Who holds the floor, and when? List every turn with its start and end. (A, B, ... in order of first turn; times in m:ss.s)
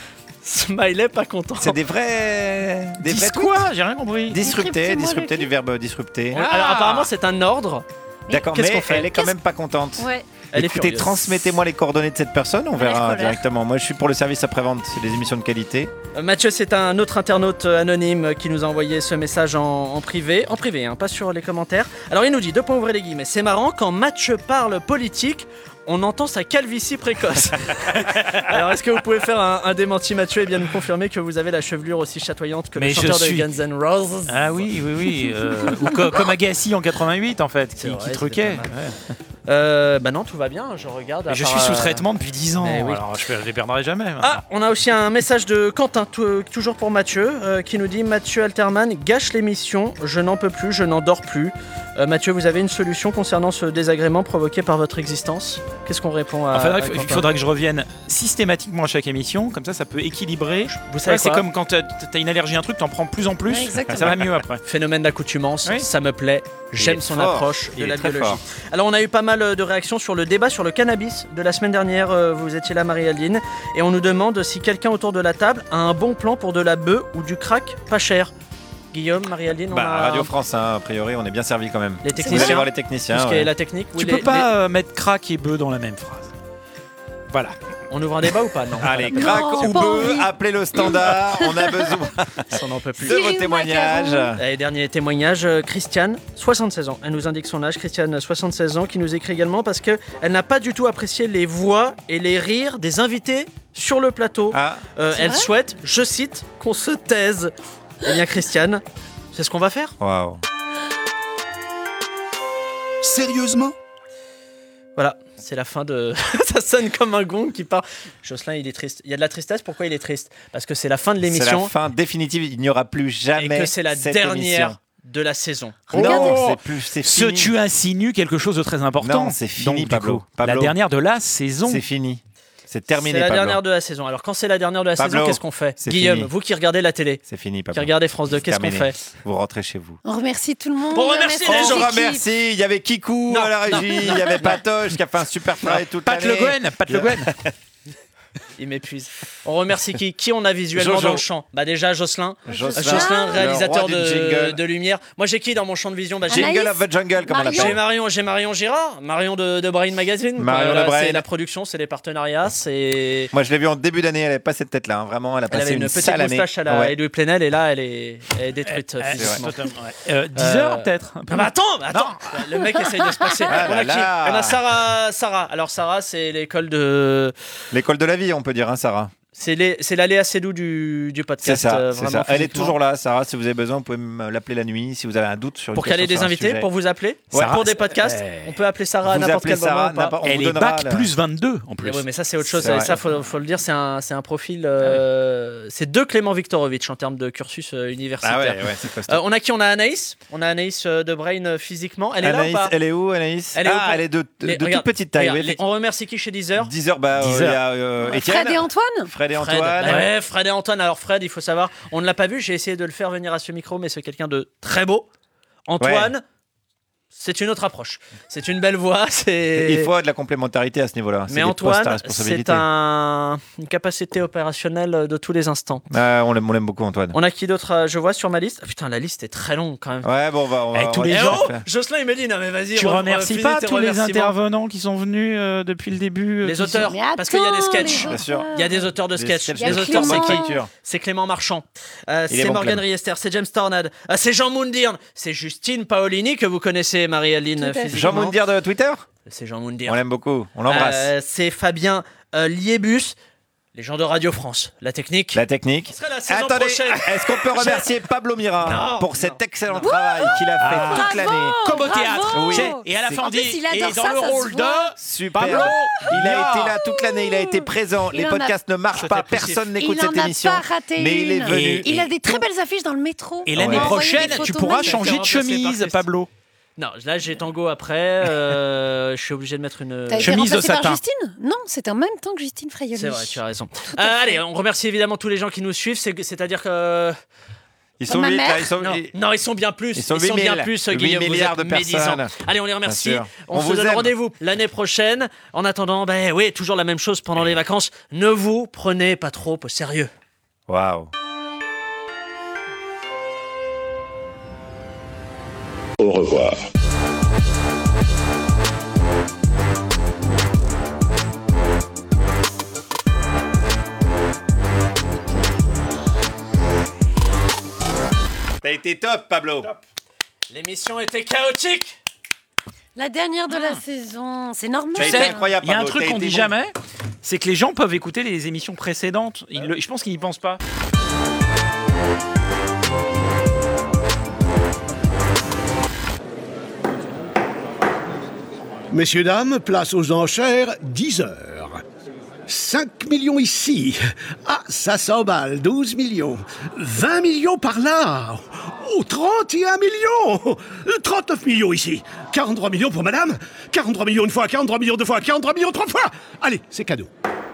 0:00.4-0:01.8 A
0:01.6-0:03.7 B
0:03.0-0:04.4 C
0:04.3-0:06.4 B
0:04.4-0:05.5 D
0:06.3-0:07.8 A
0:06.3-0:07.1 C
0:08.3-0:15.9 B
0:08.5-0:09.1 A
0:09.1-0:09.4 D
0:10.0-0:10.3 D
0:10.5-0:11.2 A
0:12.8-0:13.4 D
0:16.2-0:34.7 A
0:32.8-0:33.5 C
0:34.3-0:39.0 C
0:37.8-0:38.7 A
0:39.5-0:42.1 A
0:41.3-0:44.4 C
0:42.6-0:43.0 A
0:44.2-0:57.3 A
0:56.5-1:04.6 C
1:00.7-1:01.4 A
1:03.5-1:04.2 D
1:04.7-1:18.3 A
1:06.8-1:08.4 B
1:18.9-1:20.3 A
1:19.7-1:23.5 B
1:22.0-1:24.5 A
1:22.2-1:22.6 D
1:24.0-1:26.3 C
1:27.9-1:29.9 A
1:28.8-1:34.4 B
1:29.2-1:31.9 D
1:32.5-1:33.2 A
1:33.1-1:34.3 D
1:34.4-1:50.0 A
1:44.5-1:44.8 B
1:45.2-1:45.5 D
1:50.0-1:50.4 B
1:53.0-1:53.7 E
1:55.0-2:01.7 A
2:01.2-2:04.8 B
2:03.4-2:06.2 A
2:05.9-2:06.4 D
2:05.9-2:11.8 C
2:05.9-2:07.6 B
2:09.0-2:10.8 B
2:11.6-2:13.6 B
2:13.0-2:19.0 A
2:15.0-2:16.3 B
2:17.3-2:20.0 B
2:20.0-2:22.2 D
2:20.9-2:21.9 A
2:21.4-2:27.5 B
2:23.3-2:24.6 A
2:26.0-2:27.3 C
2:28.6-2:36.6 A
2:30.7-2:31.2 B
2:32.5-2:34.6 B
2:32.5-2:33.6 D
2:36.3-2:37.8 B
2:36.3-2:37.8 D
2:37.5-2:43.3 A
2:40.4-2:41.2 B
2:43.3-2:47.0 B
2:45.5-2:49.5 A
2:48.7-2:52.6 C
2:49.1-2:49.5 B
2:50.4-2:57.3 A
2:53.5-2:54.6 B
2:57.7-2:59.1 B
2:59.4-3:02.8 A
3:01.4-3:06.7 B
3:05.7-3:10.2 A
3:07.3-3:07.6 B
3:07.3-3:08.6 C
3:09.1-3:11.1 B
3:10.2-3:13.0 C
3:11.8-3:22.7 A
3:12.6-3:13.0 B
3:18.2-3:19.2 B
3:22.2-3:25.6 B
3:23.6-3:26.7 A
3:26.6-3:30.1 B
3:27.2-3:27.6 C
3:28.0-3:29.1 D
3:29.4-3:35.1 A
3:29.8-3:30.1 C
3:35.7-3:36.2 A
3:35.8-3:36.1 B
3:37.1-3:39.9 A
3:39.6-3:42.7 B
3:41.3-3:45.9 A
3:45.9-3:47.2 B
3:47.1-3:50.1 A
3:50.0-3:51.6 B
3:50.7-3:51.6 C
3:51.1-3:54.3 A
3:52.8-3:56.9 C
3:56.4-4:08.4 A
3:56.9-3:58.9 D
3:57.9-3:58.5 B
3:59.2-4:00.7 B
3:59.6-4:00.6 D
4:02.3-4:02.8 B
4:07.6-4:08.0 D
4:07.9-4:09.1 B
4:09.3-4:10.0 A
4:09.9-4:11.1 B
4:10.7-4:13.2 A
4:13.7-4:17.9 A
4:15.3-4:23.3 B
4:18.6-4:20.4 A
4:19.8-4:25.9 D
4:20.6-4:26.8 C
4:25.0-4:32.5 B
4:27.0-4:28.6 D
4:28.9-4:29.7 A
4:29.8-4:35.1 D
4:31.5-4:32.0 C
4:33.5-4:36.3 C
4:33.5-4:34.1 B
4:33.9-4:36.0 A
4:36.8-4:40.5 A
4:40.1-4:43.4 D
4:40.2-4:41.0 C
4:43.0-4:47.2 A
4:44.0-4:44.4 D
4:48.0-4:49.1 B
4:48.1-4:48.7 D
4:48.8-5:00.1 A
4:50.0-4:52.3 B
4:52.8-4:54.1 B
5:00.7-5:01.1 B
5:18.6-5:19.8 B
5:20.5-5:22.0 A
5:23.0-5:25.5 D
5:25.0-5:26.6 B
5:25.0-5:26.7 C
5:27.2-5:30.6 C
5:38.9-5:41.8 E
5:42.5-5:57.1 E